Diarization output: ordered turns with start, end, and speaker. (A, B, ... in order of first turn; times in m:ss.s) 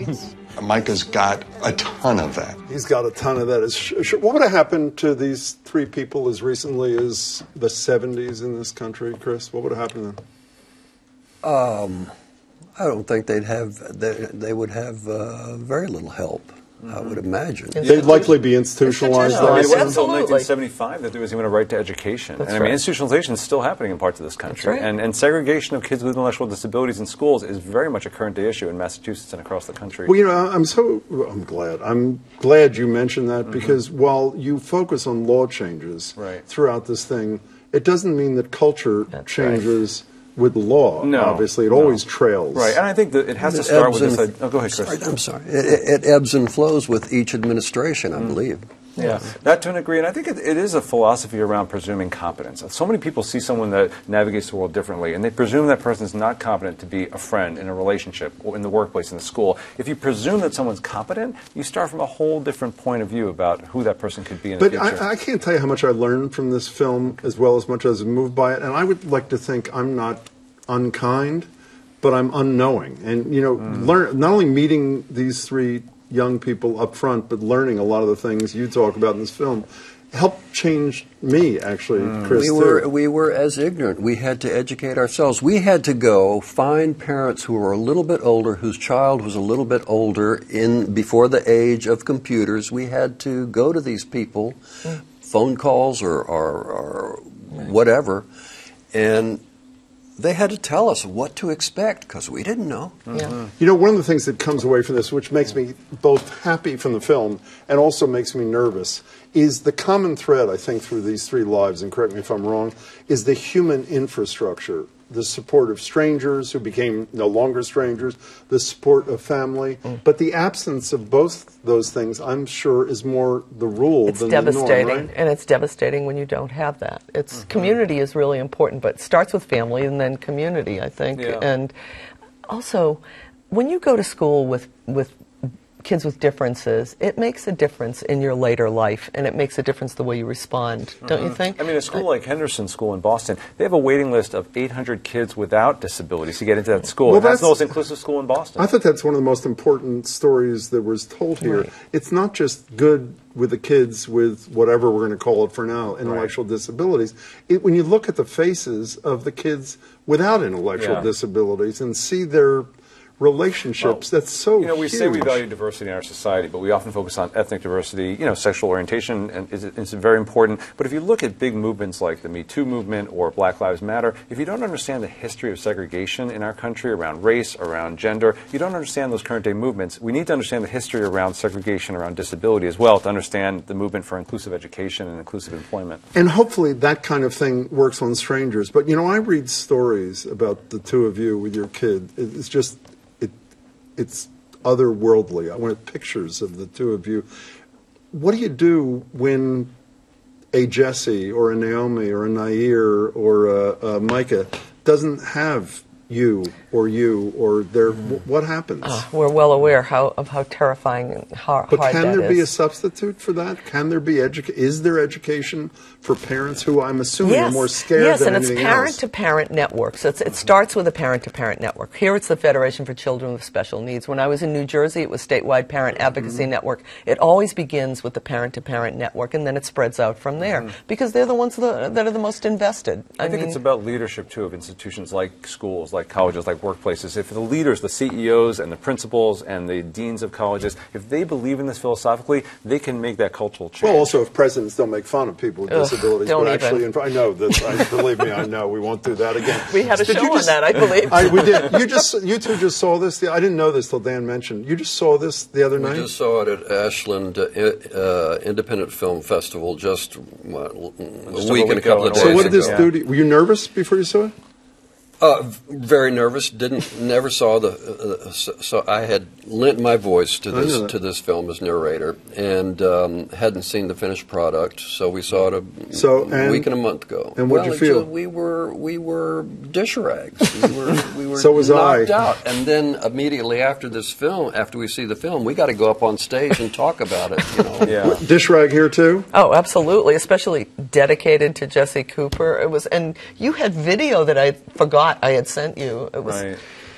0:00.6-0:02.6 A
0:02.7-0:10.2 B
0:11.4-0:12.1 C
0:12.8-0:17.9 C
0:16.8-0:17.2 D
0:17.8-0:18.3 E
0:17.8-0:20.0 B
0:17.9-0:18.2 D
0:18.8-0:20.5 E
0:19.2-0:30.1 D
0:22.4-0:22.8 E
0:24.5-0:24.9 E
0:30.1-0:42.8 B
0:36.2-0:36.4 D
0:41.0-0:42.0 D
0:42.5-0:45.0 D
0:43.4-0:48.6 C
0:49.0-1:05.0 D
1:04.6-1:11.5 B
1:12.0-1:22.9 B
1:22.2-1:38.3 C
1:38.9-1:39.4 C
1:40.2-1:43.2 C
1:43.6-2:05.1 B
2:04.0-2:11.7 E
2:07.4-2:07.8 D
2:11.1-2:11.5 D
2:12.5-2:15.2 E
2:15.8-2:22.0 E
2:21.0-2:28.7 D
2:27.0-2:27.7 B
2:28.6-2:42.7 B
2:36.0-2:36.3 D
2:40.8-2:41.1 D
2:43.2-2:45.4 B
2:44.6-3:06.0 D
3:06.2-3:13.3 B
3:14.0-3:17.3 B
3:18.1-3:19.7 B
3:20.5-3:29.0 B
3:28.8-3:32.5 E
3:31.7-3:39.0 B
3:37.2-3:53.6 E
3:53.2-4:04.1 D
4:03.8-4:16.1 B
4:05.7-4:06.9 E
4:09.6-4:11.7 E
4:15.8-4:22.9 C
4:21.3-4:22.9 D
4:22.1-4:24.3 B
4:25.2-4:48.1 C
4:30.5-4:30.9 B
4:35.9-4:36.7 B
4:37.4-4:38.1 B
4:41.4-4:42.1 B
4:47.8-4:48.2 D
4:47.9-4:49.3 B
4:49.3-4:56.5 E
4:56.2-4:56.6 D